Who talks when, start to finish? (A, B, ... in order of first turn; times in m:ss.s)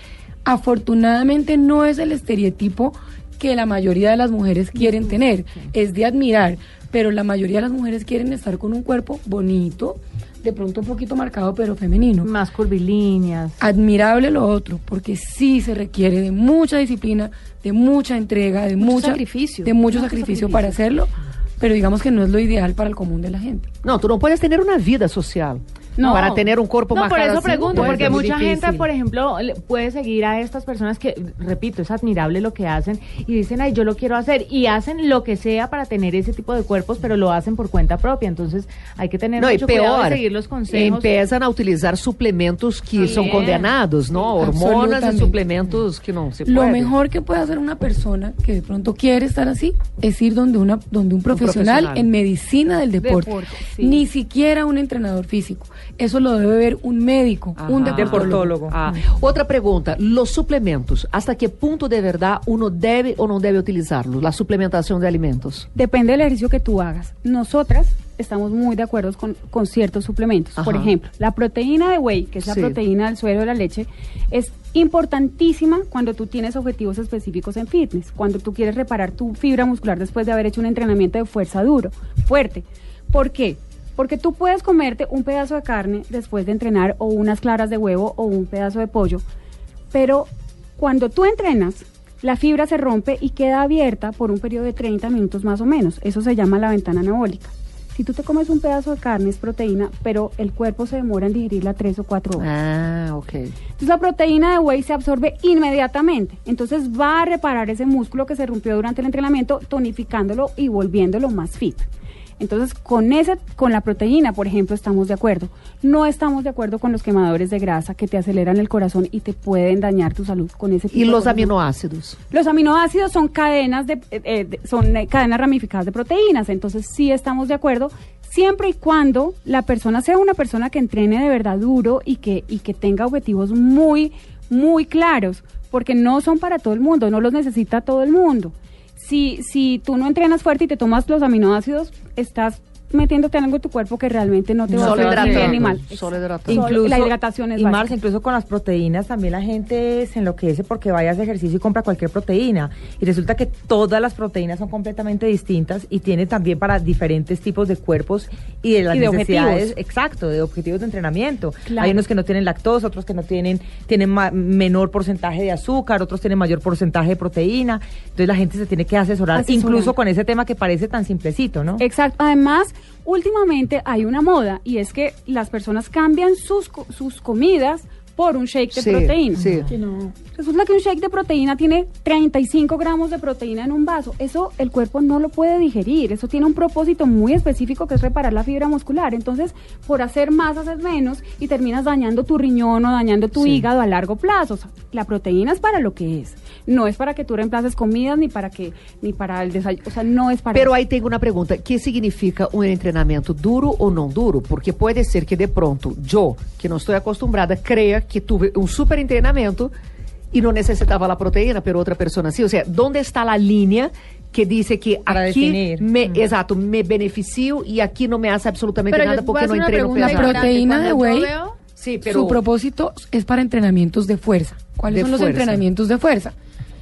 0:00.4-0:12.3 A
0:12.2-0:13.6 B
0:13.6-0:23.7 A
0:18.8-0:20.8 C
0:23.8-0:28.9 D
0:26.0-0:26.3 E
0:26.0-0:41.1 B
0:39.4-0:46.9 D
0:43.0-0:43.7 B
0:44.4-0:45.4 A
0:46.5-0:58.5 A
0:51.3-0:52.1 D
0:53.0-0:54.0 E
0:57.6-1:05.7 D
0:57.8-0:58.8 F
1:05.8-1:29.2 E
1:10.6-1:10.9 D
1:12.4-1:12.8 D
1:29.9-1:42.5 E
1:42.4-1:43.5 D
1:43.8-1:51.9 E
1:52.4-2:01.5 E
2:00.9-2:02.2 D
2:02.3-2:28.0 E
2:24.7-2:26.8 D
2:24.8-2:25.6 F
2:26.5-2:51.8 F
2:38.9-2:39.8 E
2:41.7-2:42.0 C
2:49.4-2:49.9 C
2:51.8-2:59.4 E
2:58.7-2:59.7 D
2:59.7-3:00.2 C
3:00.3-3:20.8 E
3:13.4-3:13.7 D
3:20.5-3:29.7 D
3:30.3-3:40.4 D
3:35.1-3:36.2 F
3:38.9-3:41.6 C
3:40.0-3:41.3 A
3:41.8-3:42.4 D
3:42.0-3:46.3 A
3:44.9-3:45.6 D